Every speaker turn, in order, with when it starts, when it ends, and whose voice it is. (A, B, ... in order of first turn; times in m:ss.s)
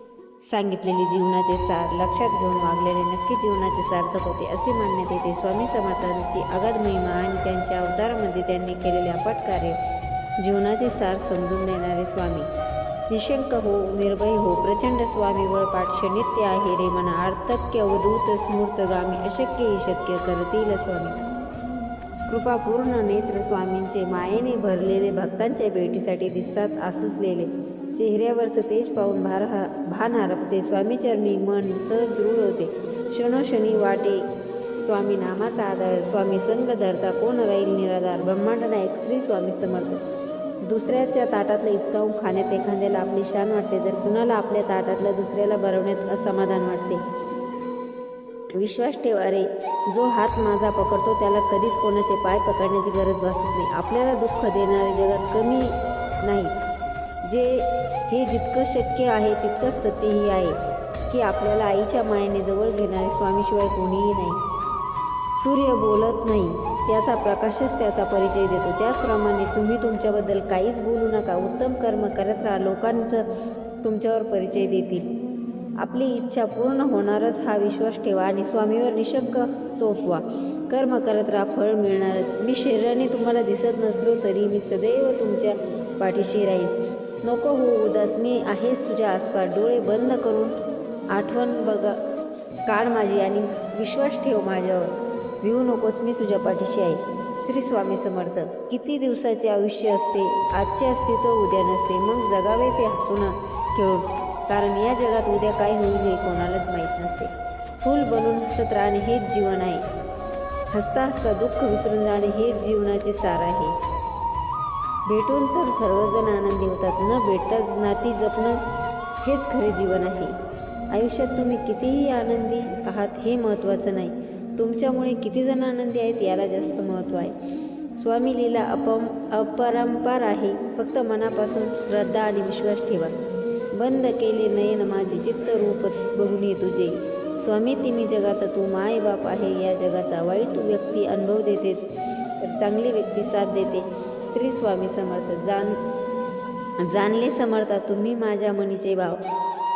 0:00.5-0:09.8 A
0:10.4-0:12.5 A
0:13.1-0:21.2 A
0:22.3-0:34.2 A
0:34.8-0:40.0 A
0:40.6-0:47.0 A
0:48.5-0:55.7 A
0:56.2-0:56.6 A
0:57.2-1:00.6 A
1:01.1-1:04.4 A
1:05.4-1:13.2 A
1:13.8-1:15.1 A
1:15.8-1:30.6 A
1:31.1-1:32.0 A
1:32.7-1:49.8 A
1:50.7-1:53.7 A
1:55.1-1:58.6 A
1:59.2-2:00.3 A
2:00.9-2:07.3 A
2:08.0-2:13.1 A
2:13.8-2:21.8 A
2:22.4-2:25.8 A
2:26.8-2:29.2 A